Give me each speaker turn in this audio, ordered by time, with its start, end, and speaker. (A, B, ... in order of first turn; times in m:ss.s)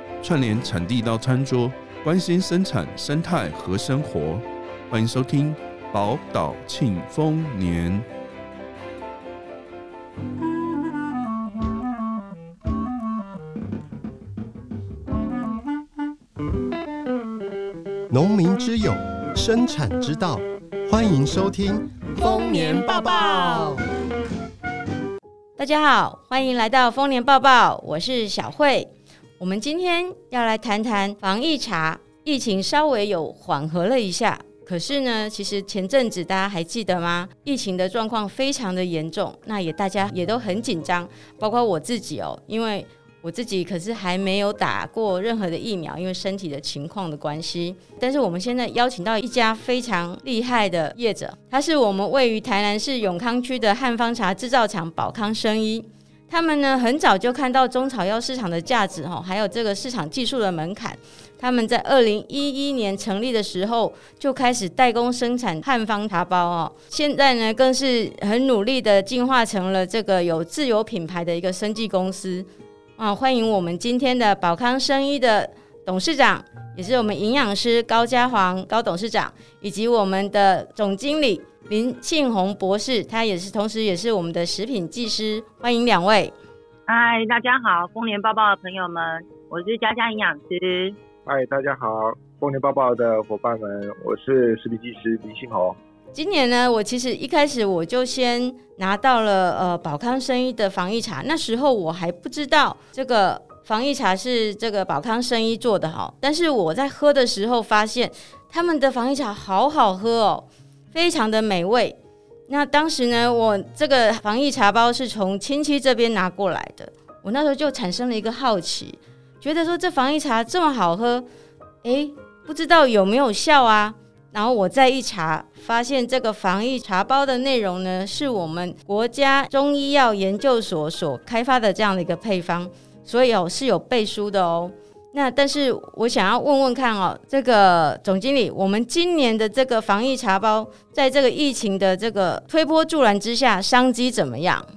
0:00.2-0:08.0 A
0:18.1-0:23.9 B
0:25.6-1:26.3 C
1:26.9-1:31.0 D
1:31.2-1:35.8 E
1:36.1-1:52.0 C
1:52.5-2:01.3 C
2:01.8-2:24.7 C